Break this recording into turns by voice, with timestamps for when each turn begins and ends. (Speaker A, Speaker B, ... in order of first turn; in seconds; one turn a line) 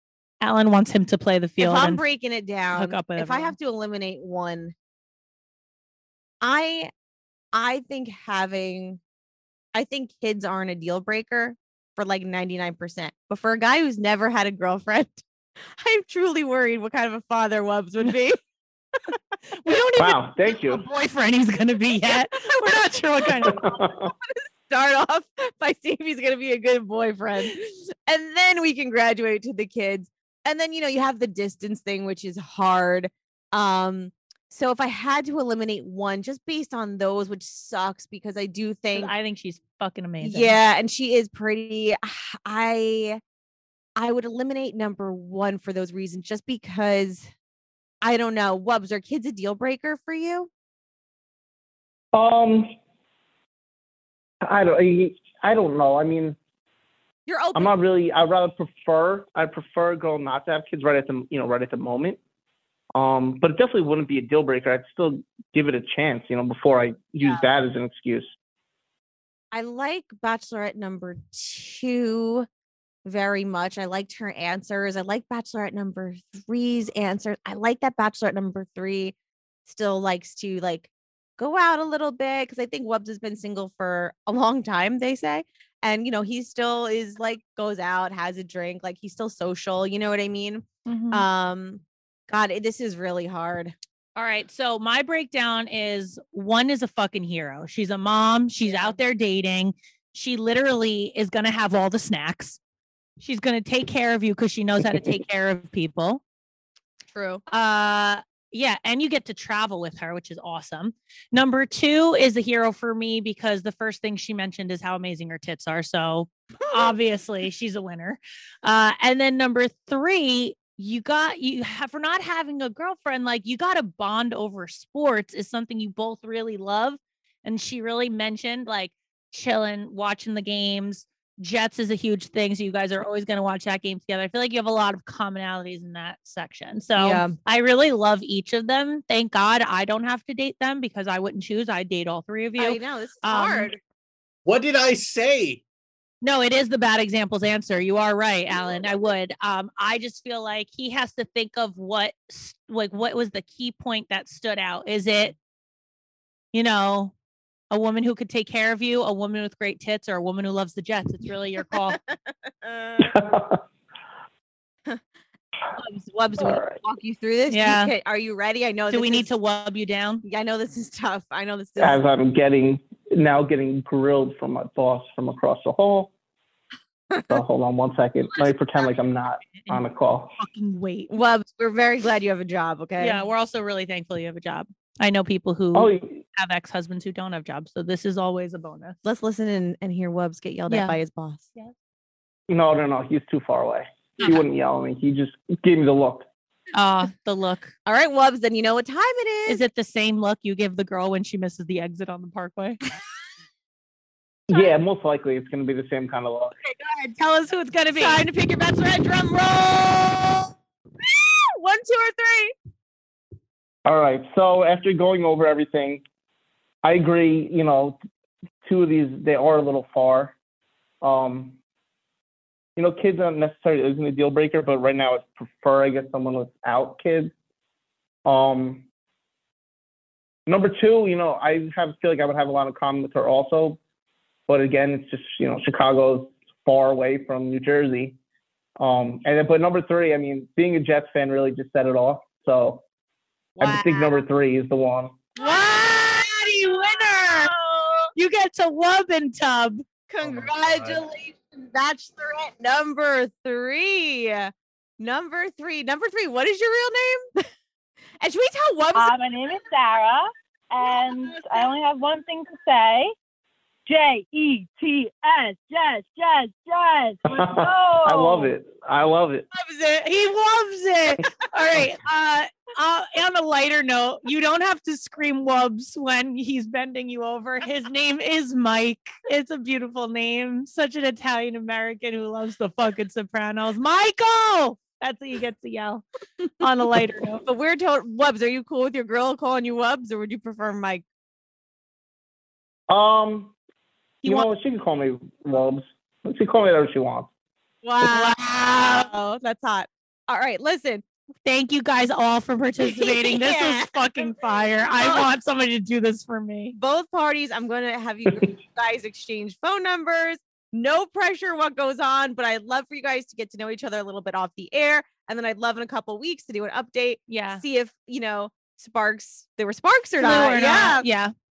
Speaker A: 0.4-2.0
Speaker B: 1.6-4.7
Speaker A: 2.8-3.5
Speaker B: 6.4-6.9
Speaker B: 7.5-9.0
Speaker B: 9.7-15.2
Speaker B: 15.8-18.4
Speaker A: 19.6-23.8
Speaker C: 20.0-20.8
Speaker B: 22.1-23.0
Speaker C: 23.4-24.1
Speaker B: 24.1-39.1
Speaker A: 38.9-40.6
Speaker B: 40.2-43.2
Speaker B: 44.0-47.3
Speaker B: 48.0-50.5
Speaker C: 52.1-52.7
Speaker C: 54.4-56.4
Speaker B: 57.3-57.7
Speaker C: 57.5-62.2
Speaker C: 62.9-68.3
Speaker B: 67.2-67.5
Speaker B: 69.5-72.5
Speaker B: 73.0-79.2
Speaker B: 79.7-93.7
Speaker A: 90.9-91.2
Speaker A: 94.2-102.6
Speaker B: 98.6-99.0
Speaker A: 103.2-106.2
Speaker B: 107.1-107.4
Speaker A: 107.5-143.7
Speaker B: 116.7-116.9
Speaker B: 137.0-137.3
Speaker B: 142.6-143.8
Speaker D: 144.4-145.6
Speaker A: 146.2-155.4
Speaker A: 156.5-157.1
Speaker A: 157.7-162.0
Speaker B: 161.9-163.1
Speaker C: 163.0-163.6
Speaker B: 165.7-169.3
Speaker C: 166.4-166.8
Speaker A: 167.5-167.9
Speaker A: 168.9-170.2
Speaker B: 170.2-172.0
Speaker C: 171.8-176.1
Speaker B: 177.1-177.4
Speaker C: 177.3-180.3
Speaker A: 179.6-179.8
Speaker A: 180.4-181.1
Speaker B: 181.1-183.2
Speaker A: 183.0-189.0
Speaker C: 185.7-186.2
Speaker B: 189.0-191.5
Speaker A: 190.7-191.0
Speaker C: 192.5-196.3
Speaker A: 196.7-197.7
Speaker B: 197.9-199.6
Speaker A: 199.5-202.8
Speaker C: 204.5-206.6
Speaker B: 206.6-207.1
Speaker A: 207.1-208.2
Speaker B: 207.9-212.5
Speaker C: 213.8-216.0
Speaker C: 216.8-218.0
Speaker C: 218.6-220.3
Speaker C: 221.0-221.6
Speaker C: 222.8-227.3
Speaker C: 228.2-228.8
Speaker C: 230.5-233.8
Speaker C: 234.5-238.2
Speaker C: 238.8-242.8
Speaker C: 243.6-245.2
Speaker B: 243.6-244.2
Speaker B: 245.4-248.1
Speaker A: 245.4-247.5
Speaker A: 248.2-249.8
Speaker B: 250.1-257.4
Speaker D: 250.2-251.0
Speaker B: 258.2-259.1
Speaker E: 258.9-263.1
Speaker B: 260.8-261.7
Speaker E: 263.9-268.5
Speaker C: 267.2-269.5
Speaker B: 269.5-270.1
Speaker A: 270.0-286.0
Speaker A: 286.6-287.4
Speaker B: 287.4-291.0
Speaker C: 292.9-293.5
Speaker C: 294.2-297.3
Speaker B: 297.8-301.1
Speaker A: 298.1-299.1
Speaker A: 301.4-306.8
Speaker B: 302.8-304.3
Speaker B: 304.9-305.3
Speaker B: 306.7-321.1
Speaker A: 317.3-317.6
Speaker A: 320.2-321.3